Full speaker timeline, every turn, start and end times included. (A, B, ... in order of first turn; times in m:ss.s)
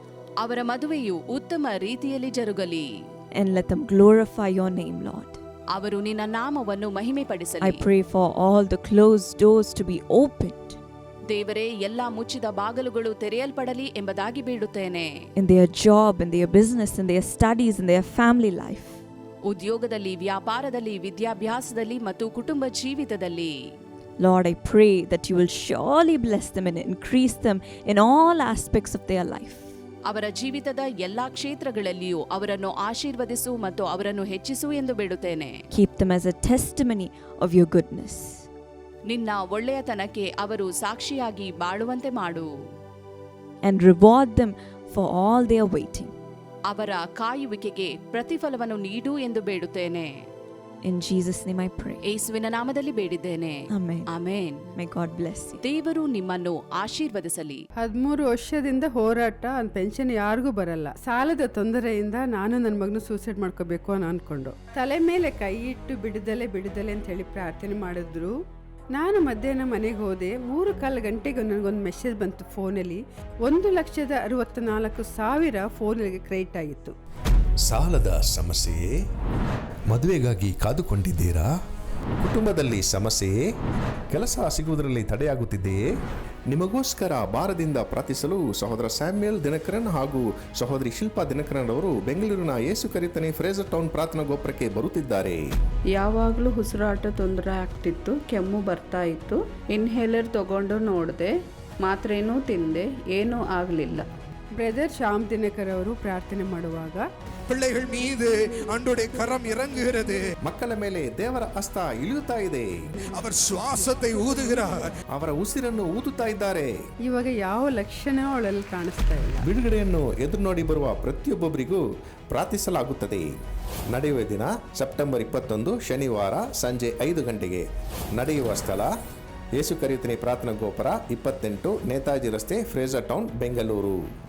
0:00.4-0:02.9 A
0:03.4-0:05.4 B
0:05.7-0:07.8 A
0:07.6-0:10.8 B
0:11.3-0:15.1 A
0:15.4-0:19.0 B
0:19.5-0:23.5 A
0:24.2-0:29.8 B
0:30.1-0:35.6 A
0:35.7-0:38.5 B
0:39.1-0:42.5 A
0:43.6-0:46.1 B
0:46.7-0:50.1 A
0:50.8-0:52.0 B
0:52.1-0:54.7 A
0:53.7-0:54.1 B
0:54.8-0:55.6 B
0:55.6-0:57.6 A
0:57.8-1:08.3 C
1:08.9-1:17.0 C
1:17.6-1:18.9 D
1:19.9-1:21.5 D
1:22.2-1:23.5 D
1:24.1-1:25.9 D
1:26.5-1:35.4 D
1:35.9-1:44.1 E
1:44.6-1:47.1 C
1:47.5-1:50.2 F
1:50.4-1:52.7 D
1:53.1-1:54.9 F
1:55.1-1:56.7 D
1:57.0-1:59.5 C
1:59.4-2:03.3 D
2:03.9-2:08.9 D
2:09.6-2:14.0 D